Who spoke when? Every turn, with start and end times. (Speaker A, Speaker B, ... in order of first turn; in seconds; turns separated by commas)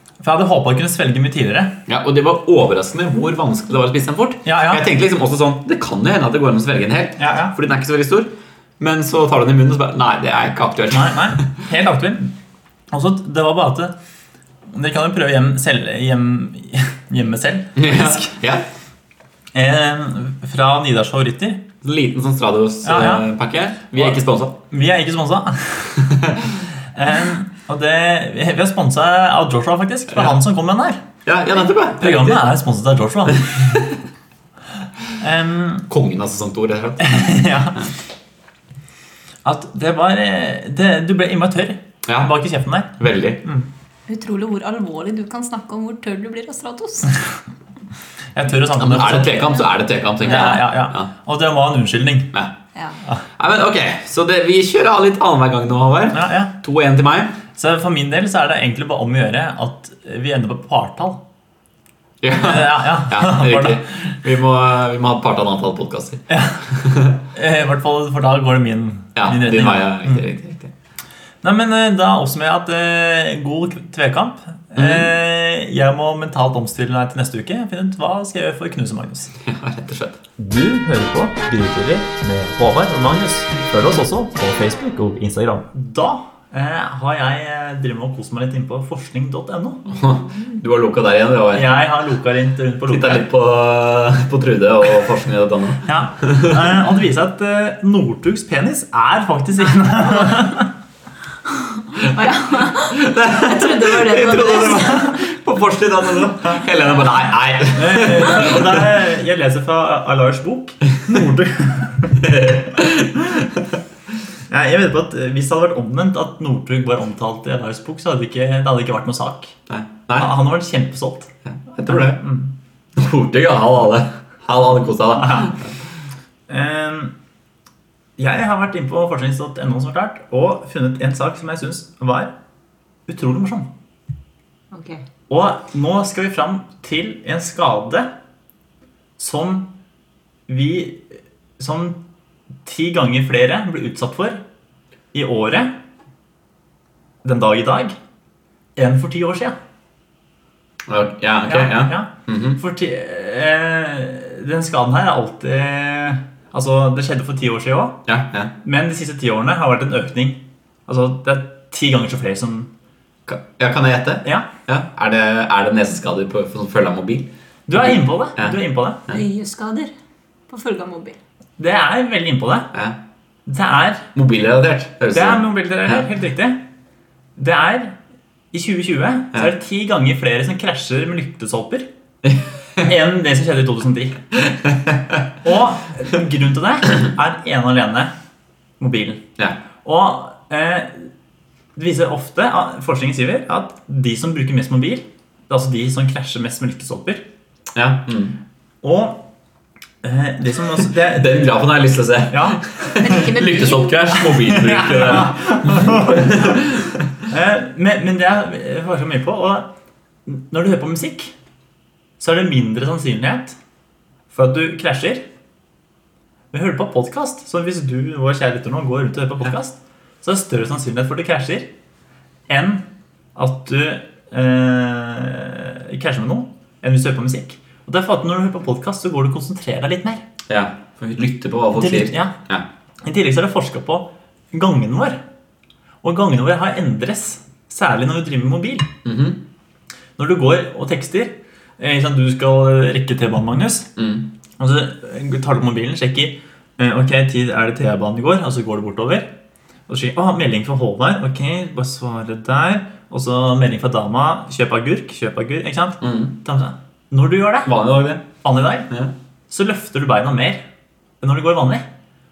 Speaker A: 0.2-1.8, Speaker B: 1.9-11.6, Speaker A: 4.5-4.8, Speaker A: 7.2-7.5, Speaker A: 10.9-12.3, Speaker A: 12.9-13.9, Speaker A: 14.7-18.4, Speaker B: 17.8-18.7, Speaker A: 19.5-21.6, Speaker B: 21.8-24.6, Speaker A: 22.8-23.3, Speaker A: 23.9-26.4, Speaker B: 26.1-26.5, Speaker A: 26.9-31.0, Speaker B: 31.3-32.5, Speaker A: 32.0-33.9, Speaker B: 33.5-34.0, Speaker A: 35.2-35.9, Speaker B: 35.9-37.4, Speaker A: 37.0-37.9, Speaker A: 39.5-43.7, Speaker B: 42.1-42.3, Speaker B: 43.0-43.5, Speaker C: 44.1-47.2, Speaker A: 48.3-49.5, Speaker B: 48.8-51.1, Speaker A: 50.2-52.3, Speaker C: 50.3-50.6, Speaker C: 52.8-53.0, Speaker B: 53.4-57.4, Speaker A: 56.1-56.5, Speaker A: 57.5-61.2, Speaker B: 62.2-67.2, Speaker A: 62.4-64.0, Speaker A: 66.3-66.7, Speaker A: 67.3-70.2, Speaker B: 69.2-70.7, Speaker A: 71.4-79.3, Speaker B: 74.8-75.1, Speaker B: 79.4-80.2, Speaker A: 80.4-89.9, Speaker B: 89.9-91.7, Speaker C: 90.0-90.3, Speaker A: 91.5-93.2, Speaker B: 92.9-96.6, Speaker A: 95.9-100.7, Speaker C: 101.5-105.2, Speaker B: 102.1-108.9, Speaker A: 107.7-112.5, Speaker B: 112.2-113.6, Speaker A: 114.5-119.6, Speaker B: 119.7-120.3, Speaker A: 120.2-121.3, Speaker B: 121.5-122.2, Speaker A: 121.9-122.5, Speaker B: 123.0-125.6, Speaker A: 125.2-125.5, Speaker A: 126.5-127.1, Speaker A: 128.2-132.3, Speaker A: 133.1-133.7, Speaker C: 134.7-135.0, Speaker A: 135.3-138.1, Speaker A: 139.2-139.7, Speaker A: 140.5-142.0, Speaker A: 142.7-144.4, Speaker A: 145.1-145.7, Speaker A: 147.2-148.0, Speaker A: 148.8-149.6, Speaker B: 150.9-152.6, Speaker A: 151.4-158.0, Speaker B: 158.1-158.5, Speaker A: 158.6-162.7, Speaker B: 163.3-168.6, Speaker A: 164.2-164.5, Speaker A: 167.7-169.0, Speaker C: 169.1-169.9, Speaker C: 170.5-171.2, Speaker A: 171.6-172.7, Speaker A: 173.5-174.1, Speaker B: 174.2-176.0, Speaker A: 175.1-176.6, Speaker A: 177.4-178.0, Speaker A: 178.5-181.9, Speaker A: 182.8-184.2, Speaker B: 184.7-184.9, Speaker A: 185.4-188.1, Speaker A: 188.8-189.2, Speaker A: 189.8-191.1, Speaker A: 191.8-197.3, Speaker B: 197.8-198.4, Speaker A: 198.8-199.3, Speaker A: 200.0-201.3, Speaker B: 201.0-207.0, Speaker A: 202.3-203.2, Speaker C: 203.0-204.2, Speaker A: 204.3-206.6, Speaker A: 207.3-209.7, Speaker A: 210.3-211.3, Speaker A: 212.2-213.6, Speaker A: 214.3-215.3, Speaker A: 216.5-221.7, Speaker A: 222.5-230.2, Speaker B: 230.5-232.7, Speaker A: 231.8-232.3, Speaker A: 233.0-235.2, Speaker A: 236.0-238.9, Speaker B: 239.1-239.4, Speaker A: 240.2-243.9, Speaker B: 244.0-244.3, Speaker A: 244.6-249.3, Speaker A: 249.9-257.7, Speaker B: 256.0-256.4, Speaker B: 257.6-258.3, Speaker A: 258.4-258.9, Speaker A: 259.5-260.6, Speaker A: 261.2-261.9